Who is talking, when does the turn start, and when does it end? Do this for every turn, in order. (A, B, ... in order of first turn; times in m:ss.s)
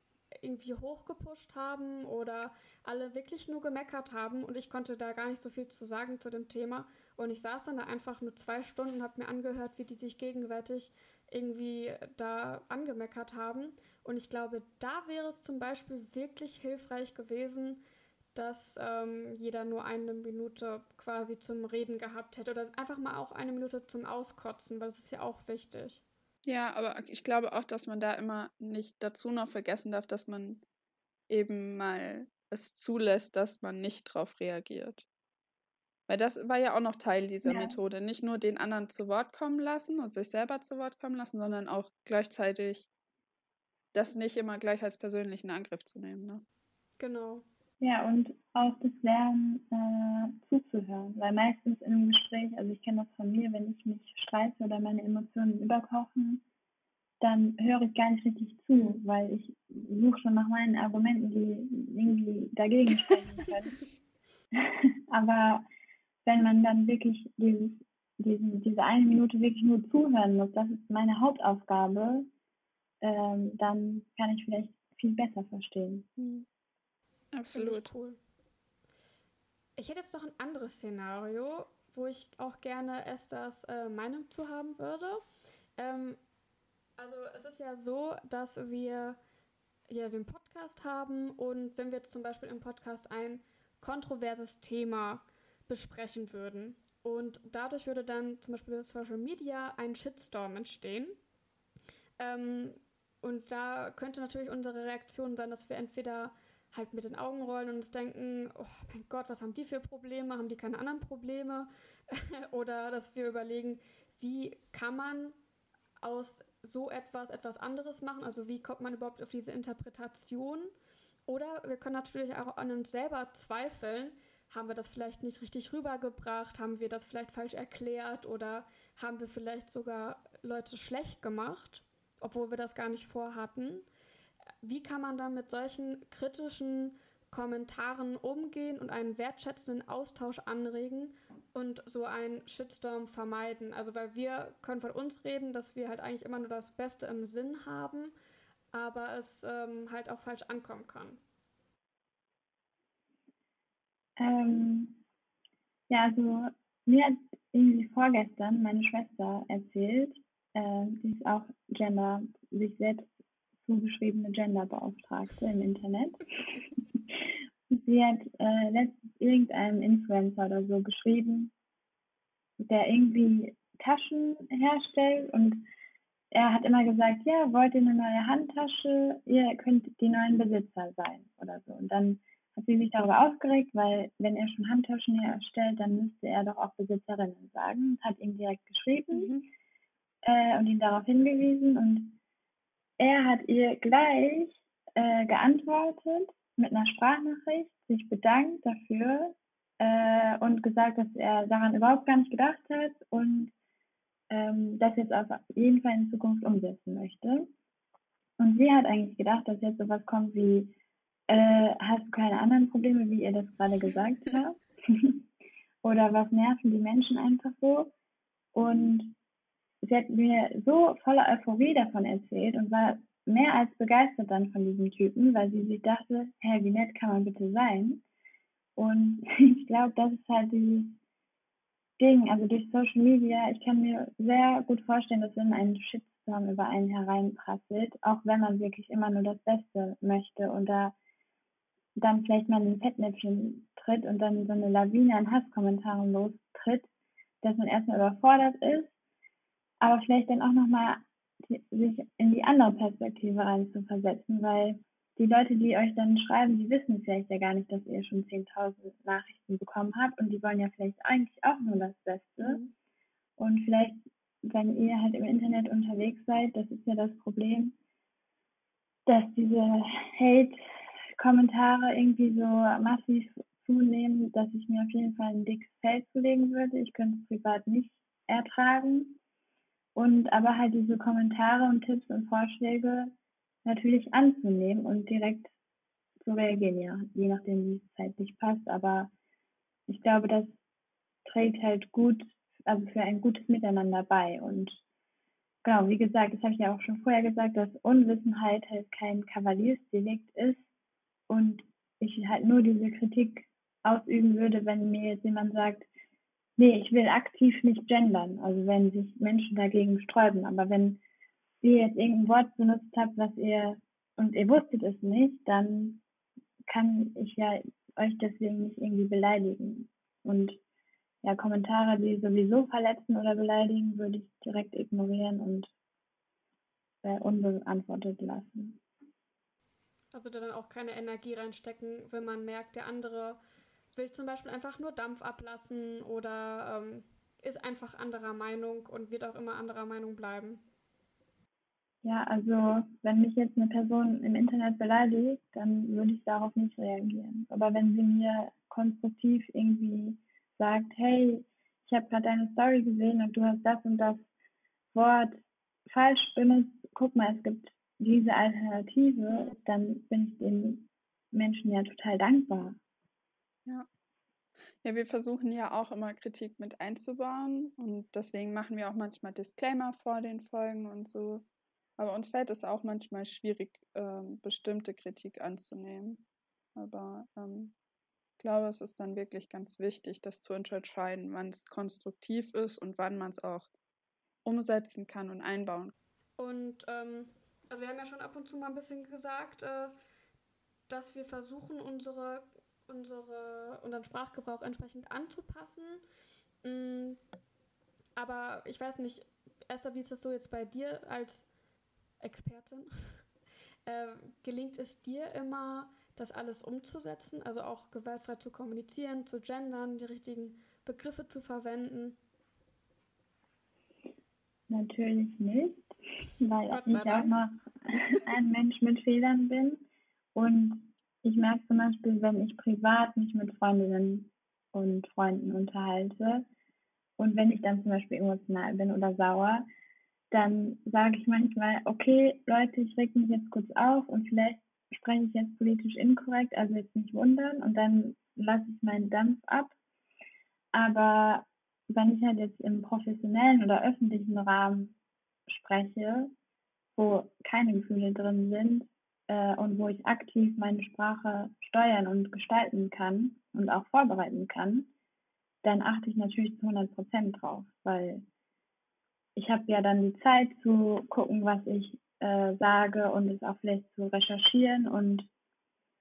0:00.4-0:17.8 A
0:18.3-0:26.0 A
0:26.4-0:30.6 B
0:31.3-0:35.0 B
0:36.1-0:42.9 B
0:37.4-0:37.8 C
0:43.9-0:46.4 B
0:47.0-0:47.4 A
0:47.8-0:56.4 C
0:57.2-1:03.8 C
1:04.5-1:05.6 C
1:06.2-1:12.3 C
1:13.0-1:16.1 C
1:16.2-1:16.4 B
1:17.3-1:17.9 B
1:17.5-1:18.2 A
1:19.8-1:25.2 A
1:25.8-1:26.2 A
1:27.0-1:29.2 A
1:29.9-1:41.2 A
1:42.2-1:55.3 A
1:56.0-2:00.7 A
2:01.3-2:13.8 A
2:14.6-2:28.1 A
2:28.7-2:31.2 A
2:34.2-2:35.0 C
2:35.9-2:43.1 C
2:43.6-2:46.2 C
2:47.7-2:51.5 C
2:52.6-2:55.6 C
2:56.3-3:09.4 C
3:09.1-3:09.4 B
3:10.2-3:12.2 C
3:13.0-3:23.5 C
3:24.3-3:27.5 C
3:28.4-3:30.8 C
3:31.3-3:35.2 C
3:35.8-3:37.9 C
3:38.5-3:39.1 C
3:39.8-3:48.0 C
3:48.8-3:51.0 C
3:52.0-4:00.9 C
4:02.0-4:06.9 C
4:07.4-4:08.9 C
4:09.8-4:22.6 C
4:23.4-4:27.8 C
4:29.0-4:30.6 C
4:31.2-4:39.2 C
4:39.9-4:43.1 C
4:43.6-4:45.5 C
4:46.2-4:49.1 C
4:49.9-4:50.6 C
4:51.2-4:54.8 C
4:55.6-5:00.6 C
5:01.3-5:05.9 C
5:06.6-5:11.0 C
5:11.6-5:16.0 C
5:16.7-5:20.6 C
5:21.2-5:25.7 C
5:27.0-5:28.8 C
5:30.1-5:33.4 A
5:33.9-5:40.6 A
5:42.0-5:54.2 C
5:54.9-6:02.8 C
6:04.8-6:11.4 B
6:12.0-6:16.2 B
6:16.8-6:17.7 B
6:18.4-6:23.7 B
6:24.4-6:25.9 B
6:26.4-6:29.9 A
6:30.9-6:36.0 A
6:36.6-6:37.2 A
6:38.2-6:41.5 A
6:42.2-6:43.2 A
6:43.8-6:52.2 A
6:54.7-6:59.8 C
6:56.7-6:57.4 A
7:00.3-7:06.4 C
7:07.2-7:09.6 C
7:10.3-7:19.8 C
7:20.7-7:25.0 C
7:25.5-7:26.3 C
7:27.0-7:34.9 C
7:35.6-7:38.2 C
7:39.4-7:45.3 C